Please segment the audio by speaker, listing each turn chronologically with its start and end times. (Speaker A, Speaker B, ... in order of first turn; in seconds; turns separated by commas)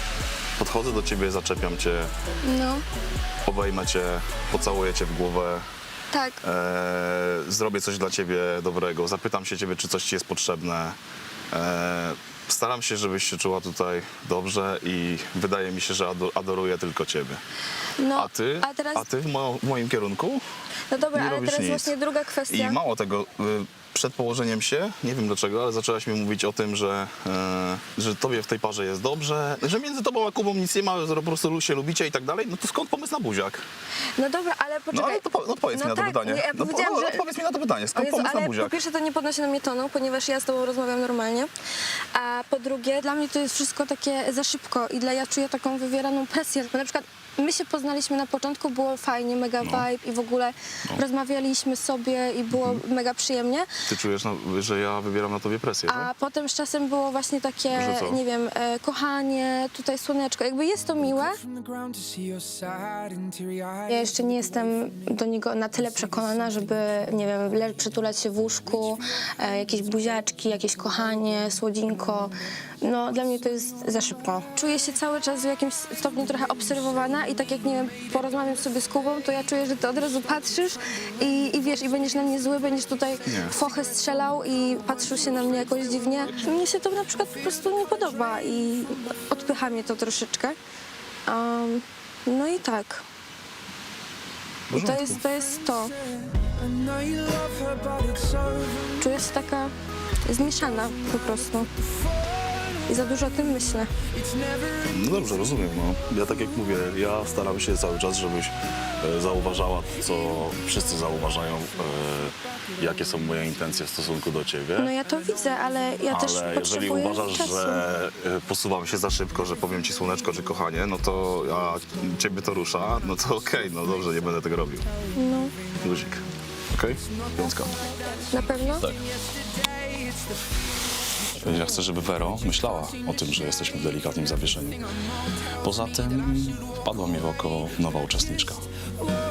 Speaker A: 0.6-2.1, Speaker B: 2.4-2.8, Speaker A: 3.5-5.6, Speaker B: 6.1-6.4, Speaker A: 6.4-11.0, Speaker A: 11.5-17.4, Speaker B: 18.0-19.0, Speaker A: 18.1-20.4, Speaker B: 20.9-22.8, Speaker A: 21.1-21.9, Speaker A: 22.5-33.6, Speaker B: 34.2-37.2, Speaker A: 34.9-38.7, Speaker B: 37.9-41.5, Speaker B: 42.1-53.7, Speaker A: 49.6-49.9, Speaker A: 52.5-52.8, Speaker A: 53.9-56.1, Speaker B: 55.9-61.4, Speaker A: 57.7-58.2, Speaker C: 61.6-63.7, Speaker B: 63.9-90.6, Speaker A: 83.2-83.5, Speaker B: 91.3-93.0, Speaker A: 94.7-95.2, Speaker B: 94.7-95.9, Speaker C: 96.8-98.7, Speaker B: 99.0-99.7, Speaker B: 100.2-101.7, Speaker B: 102.9-103.9, Speaker A: 104.9-114.9, Speaker B: 114.8-117.8, Speaker A: 116.1-124.9, Speaker B: 125.1-125.5, Speaker A: 125.8-127.8, Speaker B: 128.3-128.8, Speaker A: 131.4-134.8, Speaker A: 135.6-138.6